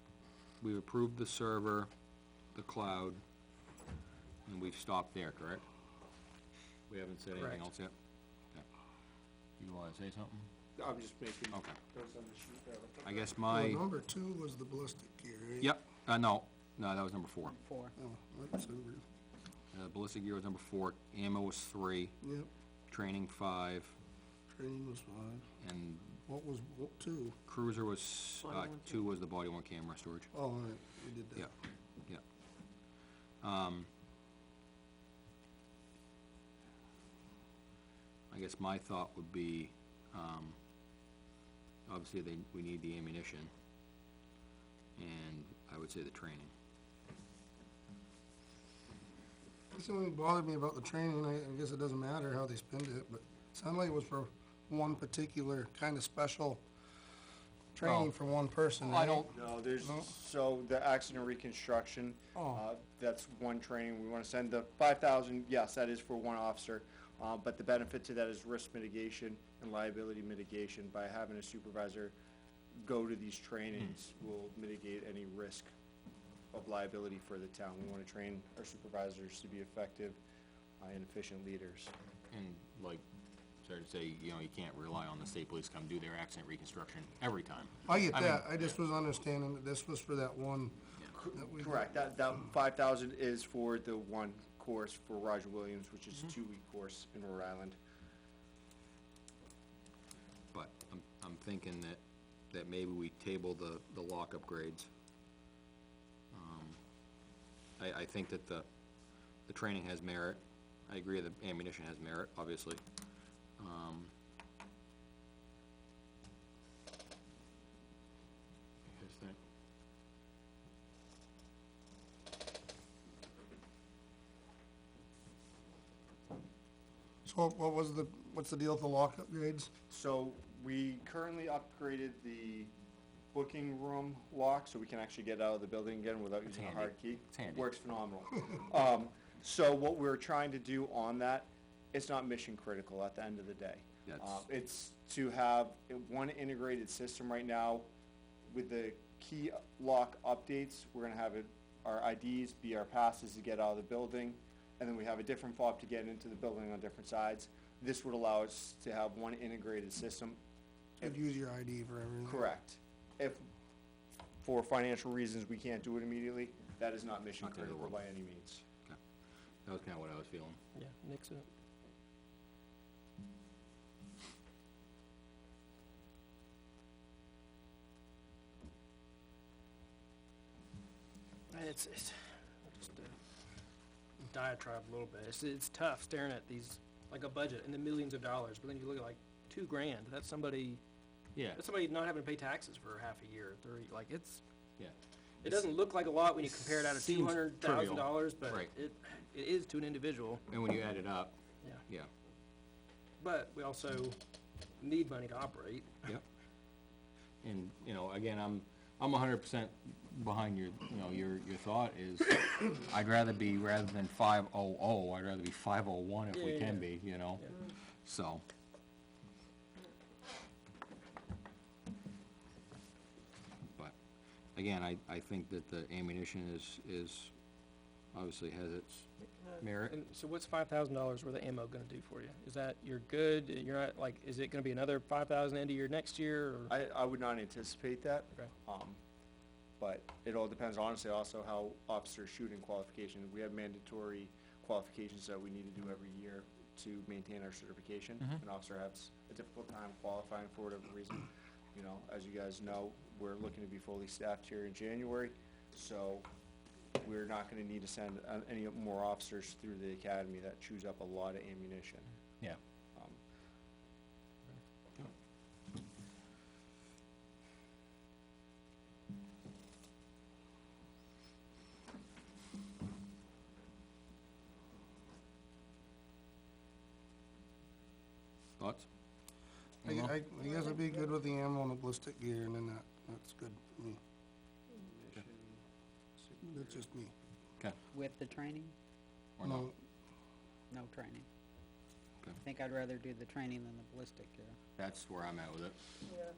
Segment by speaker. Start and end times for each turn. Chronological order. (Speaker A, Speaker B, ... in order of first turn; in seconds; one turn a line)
Speaker A: 0.6-1.9
Speaker A: 2.5-3.2
Speaker A: 4.5-5.7
Speaker A: 6.9-7.9
Speaker A: 9.6-10.5
Speaker B: 10.8-13.0
Speaker A: 11.5-11.8
Speaker A: 13.0-13.8
Speaker C: 13.5-15.7
Speaker A: 15.6-17.6
Speaker D: 17.5-17.9
Speaker C: 18.0-19.1
Speaker A: 19.7-22.2
Speaker C: 22.2-22.5
Speaker A: 22.9-24.0
Speaker C: 24.5-25.5
Speaker A: 25.6-26.2
Speaker C: 26.3-27.4
Speaker A: 27.4-30.3
Speaker C: 30.3-31.5
Speaker A: 33.4-33.9
Speaker A: 38.3-40.6
Speaker A: 41.9-43.5
Speaker A: 45.0-46.5
Speaker C: 49.7-56.6
Speaker C: 57.7-59.3
Speaker A: 57.8-58.1
Speaker A: 58.8-59.3
Speaker B: 59.3-72.2
Speaker C: 59.8-60.1
Speaker B: 72.8-75.7
Speaker B: 76.5-80.2
Speaker B: 80.8-81.9
Speaker A: 82.3-83.0
Speaker A: 83.6-88.5
Speaker C: 87.9-90.8
Speaker B: 91.1-97.8
Speaker C: 91.3-91.8
Speaker A: 100.5-104.9
Speaker A: 106.3-106.8
Speaker A: 107.8-108.7
Speaker A: 109.5-112.8
Speaker A: 113.6-114.1
Speaker A: 118.9-119.4
Speaker C: 127.2-129.7
Speaker B: 129.9-132.7
Speaker B: 133.3-147.9
Speaker A: 136.5-137.7
Speaker A: 144.1-144.4
Speaker B: 148.5-160.4
Speaker C: 161.0-162.4
Speaker B: 162.3-163.5
Speaker B: 164.4-168.6
Speaker A: 167.4-168.0
Speaker A: 169.7-170.6
Speaker E: 170.8-171.5
Speaker E: 181.5-183.2
Speaker E: 184.2-190.8
Speaker A: 191.3-191.6
Speaker E: 191.5-194.4
Speaker A: 194.8-195.7
Speaker E: 195.4-200.4
Speaker A: 196.4-198.7
Speaker A: 200.5-202.1
Speaker E: 203.2-204.2
Speaker E: 204.8-206.1
Speaker A: 207.4-218.4
Speaker E: 216.3-216.9
Speaker A: 224.6-227.3
Speaker A: 228.1-230.0
Speaker E: 229.9-236.7
Speaker B: 236.7-239.0
Speaker B: 239.8-256.3
Speaker B: 257.0-262.1
Speaker A: 278.6-278.9
Speaker A: 279.8-280.1
Speaker C: 279.9-284.0
Speaker B: 284.8-285.6
Speaker B: 286.2-286.8
Speaker C: 286.5-287.1
Speaker D: 287.9-288.7
Speaker A: 289.4-289.7
Speaker C: 289.4-289.8
Speaker D: 290.7-291.3
Speaker D: 292.4-294.6
Speaker A: 294.8-295.8